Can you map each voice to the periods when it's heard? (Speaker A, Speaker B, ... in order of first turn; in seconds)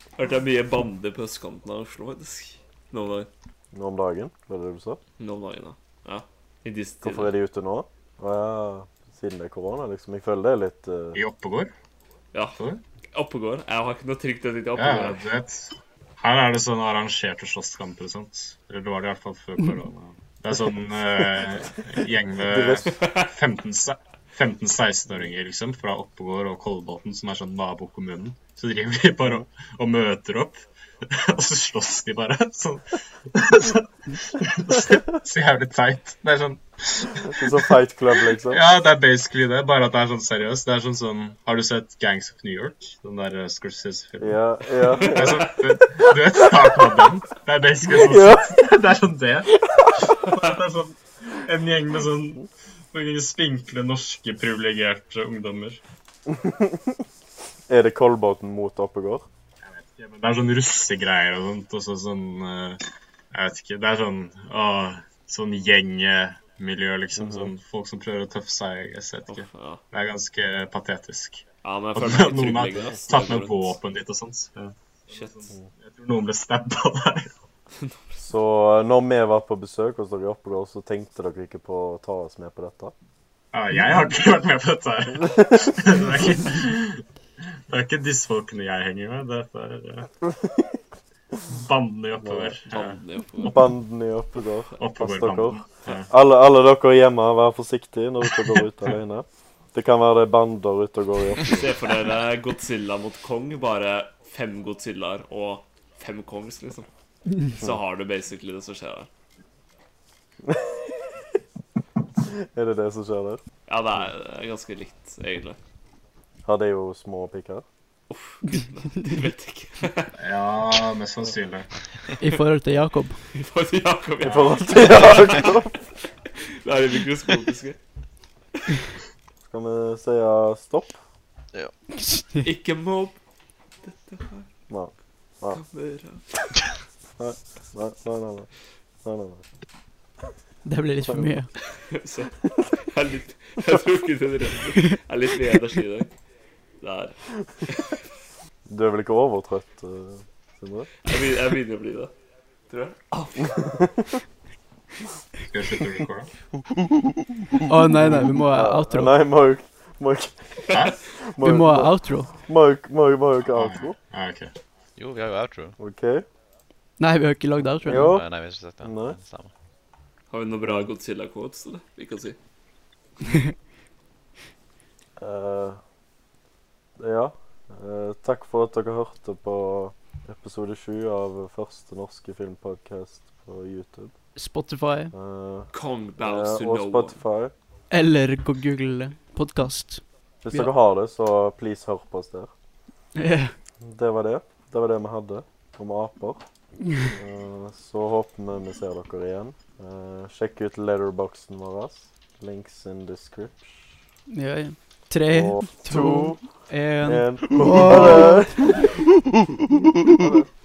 Speaker A: 0.2-3.3, 5.2-7.3, 12.3-12.6, 13.1-15.2, 22.9-23.3, 45.0-45.4, 69.3-69.8, 71.6-73.8, 75.1-75.3, 92.7-93.6, 101.5-106.9, 107.5-109.1, 113.7-115.6, 118.1-120.2, 123.3-125.6, 126.6-127.8, 132.4-133.2, 133.8-134.5, 135.5-136.5, 141.9-146.1, 146.8-147.9, 151.0-152.1, 152.7-153.6, 160.7-160.9, 170.3-172.4, 185.7-187.2
Speaker B: 3.7-5.0, 7.0-11.2, 22.4-22.9, 29.2-29.5, 37.3-38.6, 44.2-45.4, 47.9-48.5, 56.3-57.0, 57.7-59.2, 67.2-67.5, 78.2-82.9, 90.3-90.8, 92.2-92.6, 93.4-101.8, 110.5-111.1, 112.2-113.4, 116.5-117.6, 124.2-125.8, 129.4-131.0, 134.7-135.6, 137.2-138.5, 139.0-139.4, 141.0-141.3, 148.7-150.9, 153.6-154.2, 158.0-163.9, 165.8-166.2, 167.8-168.3, 168.8-169.2, 175.2-175.8, 177.0-184.2, 185.1-187.5, 190.4-192.5, 193.8-196.4, 197.0-204.0, 205.3-206.4, 207.0-208.8, 210.1-210.5
Speaker C: 11.2-11.7, 14.8-37.6, 38.4-44.4, 45.0-55.8, 59.6-62.8, 63.3-77.3, 83.5-87.0, 87.7-90.1, 91.5-93.7, 94.8-96.1, 120.2-121.7, 155.4-156.3, 160.7-161.0, 163.5-164.5
Speaker D: 118.5-119.3, 122.2-123.2, 132.0-132.5, 140.7-141.5, 157.7-159.1, 161.4-162.3, 167.0-168.2, 184.4-185.1, 187.9-190.7, 193.2-193.5, 204.3-208.8
Speaker E: 156.7-157.0, 165.0-165.8, 168.0-169.5, 207.6-208.0, 210.0-210.2